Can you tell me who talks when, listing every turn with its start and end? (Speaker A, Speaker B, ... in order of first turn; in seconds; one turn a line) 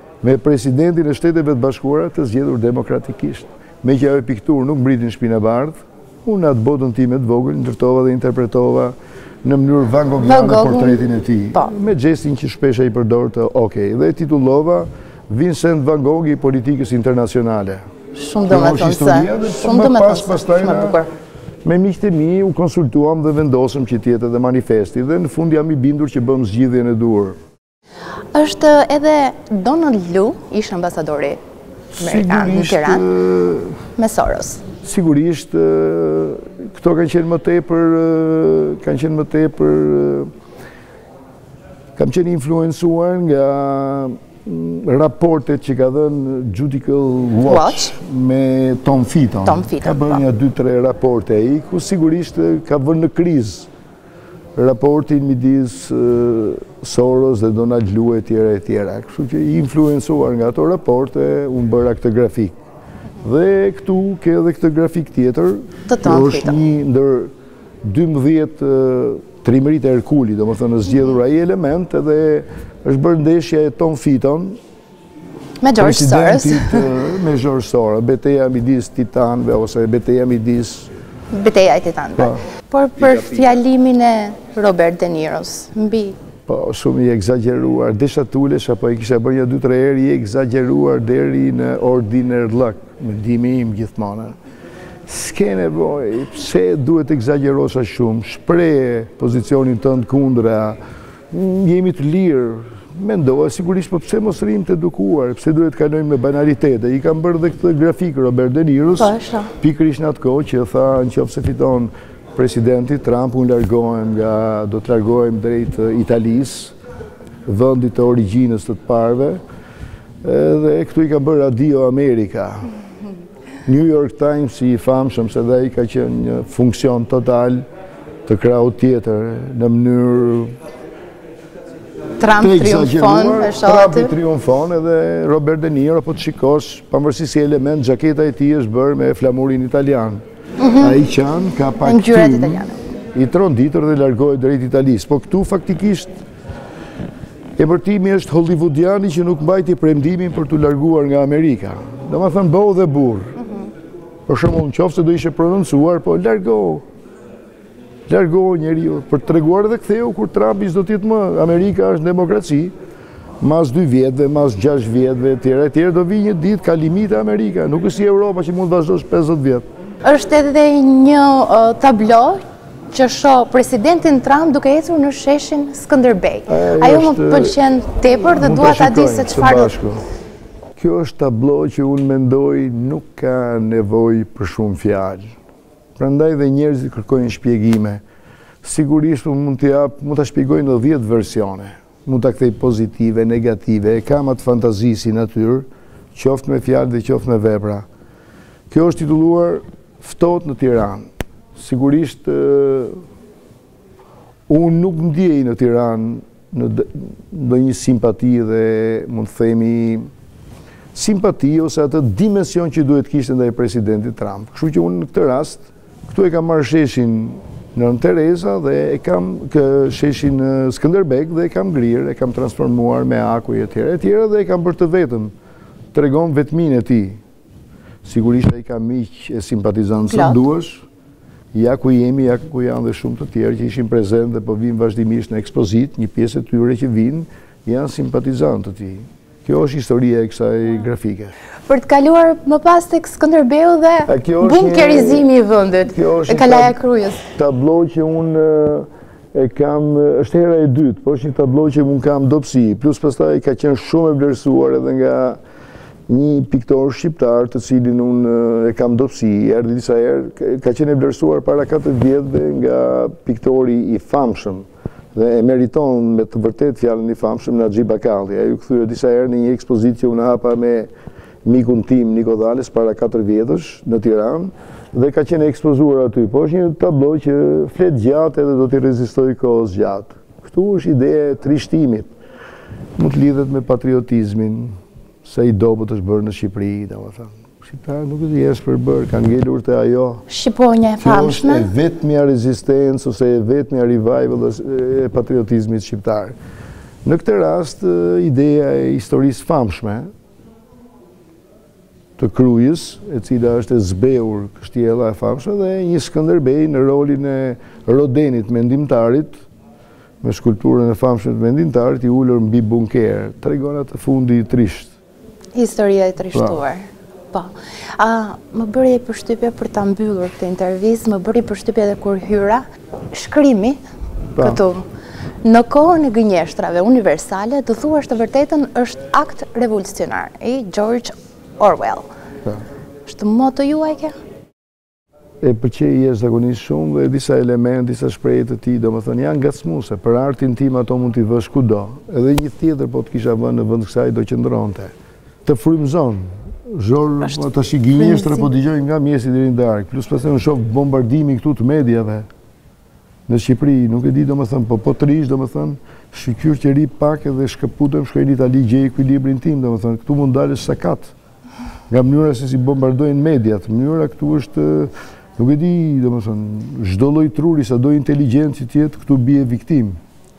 Speaker A: 0.2-17.8
Speaker B: 10.2-11.0
Speaker B: 18.1-21.1
Speaker A: 18.5-21.0
Speaker A: 21.6-27.4
Speaker B: 28.3-31.4
Speaker A: 31.9-33.8
Speaker B: 32.0-33.1
Speaker B: 34.0-34.6
Speaker A: 34.8-40.3
Speaker A: 42.0-53.7
Speaker B: 47.5-48.0
Speaker B: 49.5-50.2
Speaker A: 54.6-62.6
Speaker A: 63.2-67.3
Speaker B: 65.9-66.5
Speaker A: 67.8-74.6
Speaker B: 75.6-76.8
Speaker A: 75.8-80.9
Speaker B: 81.3-86.2
Speaker A: 82.2-82.4
Speaker A: 86.5-94.4
Speaker A: 95.1-100.8
Speaker A: 101.3-116.7
Speaker B: 109.0-109.5
Speaker A: 117.5-119.4
Speaker A: 120.2-122.7
Speaker A: 123.7-127.7
Speaker A: 128.3-130.6
Speaker B: 132.2-134.1
Speaker A: 132.4-140.2
Speaker B: 140.6-141.0
Speaker A: 140.8-146.2
Speaker B: 141.8-142.8
Speaker A: 147.6-153.7
Speaker A: 154.3-156.8
Speaker A: 158.1-162.7
Speaker A: 163.4-169.7
Speaker B: 170.0-179.8
Speaker A: 176.5-177.6
Speaker A: 178.2-180.0
Speaker A: 180.8-185.3
Speaker A: 186.0-188.0
Speaker A: 188.6-197.9
Speaker A: 198.7-203.0
Speaker A: 204.5-210.1
Speaker A: 210.9-225.3
Speaker A: 225.9-227.2
Speaker A: 228.0-230.8
Speaker B: 230.1-230.4
Speaker A: 231.5-241.3
Speaker B: 241.7-247.3
Speaker A: 244.1-245.3
Speaker A: 245.9-255.4
Speaker A: 256.1-270.9
Speaker A: 271.4-282.1
Speaker A: 283.0-290.2
Speaker B: 290.3-291.7
Speaker A: 291.0-296.4
Speaker A: 297.0-300.1
Speaker A: 302.2-309.4
Speaker A: 310.2-314.9
Speaker B: 315.6-323.8
Speaker A: 316.3-316.6
Speaker A: 324.4-324.6
Speaker B: 324.4-324.8
Speaker B: 325.4-332.1
Speaker B: 333.1-334.1
Speaker A: 335.4-344.9
Speaker A: 345.4-352.3
Speaker B: 348.0-348.4
Speaker A: 353.3-361.1
Speaker A: 361.9-370.0